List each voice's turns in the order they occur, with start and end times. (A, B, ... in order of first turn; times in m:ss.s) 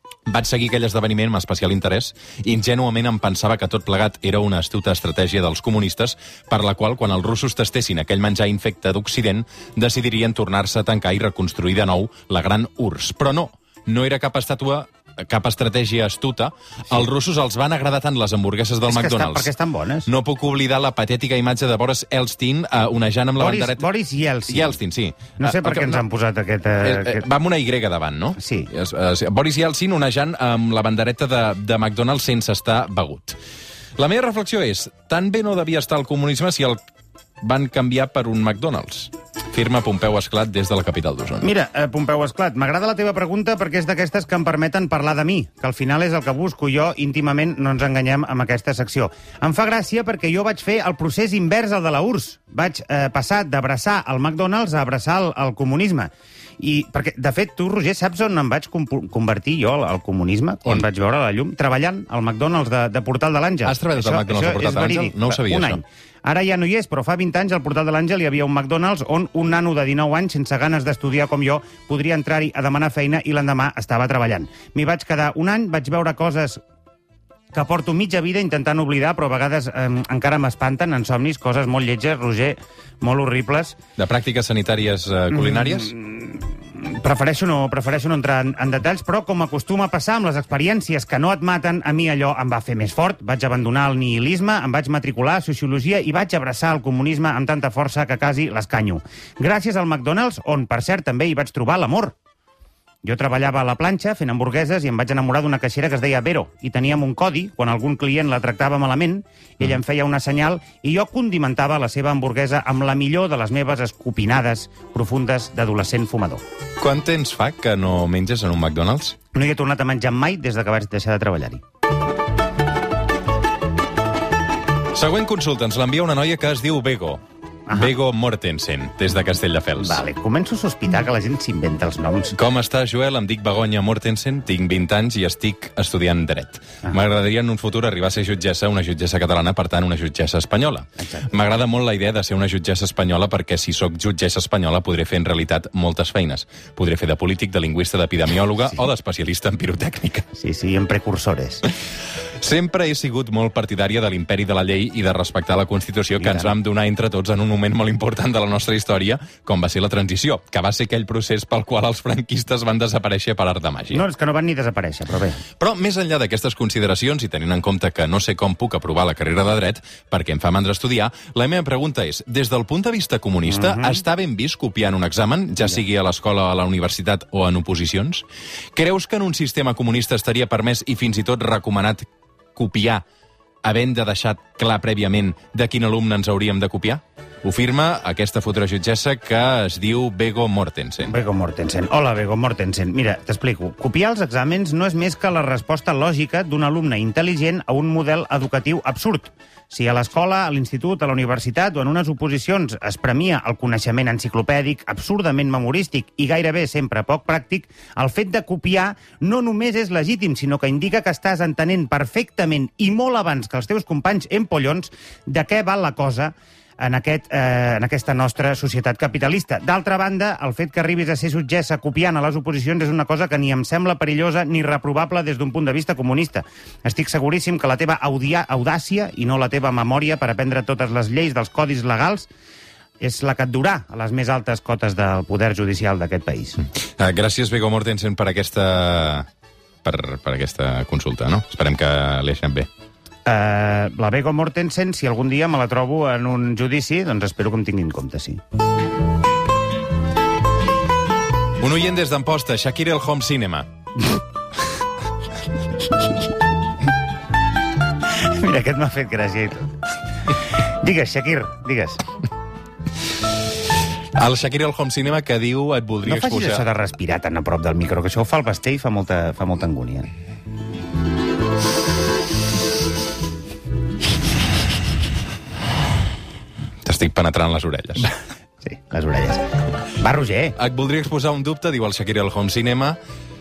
0:00.2-0:19.5 A
0:18.9-0:20.1 B
0:20.1-0:23.8 A
0:23.4-0:24.8 B
0:24.5-0:26.0 A
0:25.4-0:27.2 B
0:26.8-0:33.4 A
0:28.4-0:28.7 B
0:34.0-0:36.8 A
0:37.4-0:41.5 A
0:41.4-1:16.6 B
1:03.6-1:05.8 A
1:17.5-1:23.8 B
1:24.0-1:25.9 A
1:25.3-1:42.2 B
1:43.0-1:56.4 B
1:56.8-1:59.2 A
1:59.3-2:01.6 B
2:04.9-2:07.2 A
2:07.7-2:07.9 B
2:07.7-2:10.0 A
2:09.8-2:12.4 B
2:12.3-2:30.3 A
2:21.0-2:21.3 B
2:30.3-2:31.7 B
2:32.4-2:44.0 A
2:36.2-2:36.5 B
2:43.9-2:45.4 B
2:45.6-3:03.0 A
2:53.5-2:54.0 B
3:03.6-3:11.1 A
3:11.0-3:52.3 B
3:53.0-3:56.6 B
3:56.6-3:59.3 A
3:59.8-4:02.7 A
4:03.2-4:08.4 B
4:11.6-4:13.7 A
4:18.1-4:19.7 B
4:20.6-4:22.0 B
4:24.1-4:26.6 A
4:26.0-4:30.1 B
4:36.8-4:38.1 A
4:38.6-4:40.6 B
4:40.6-4:43.0 A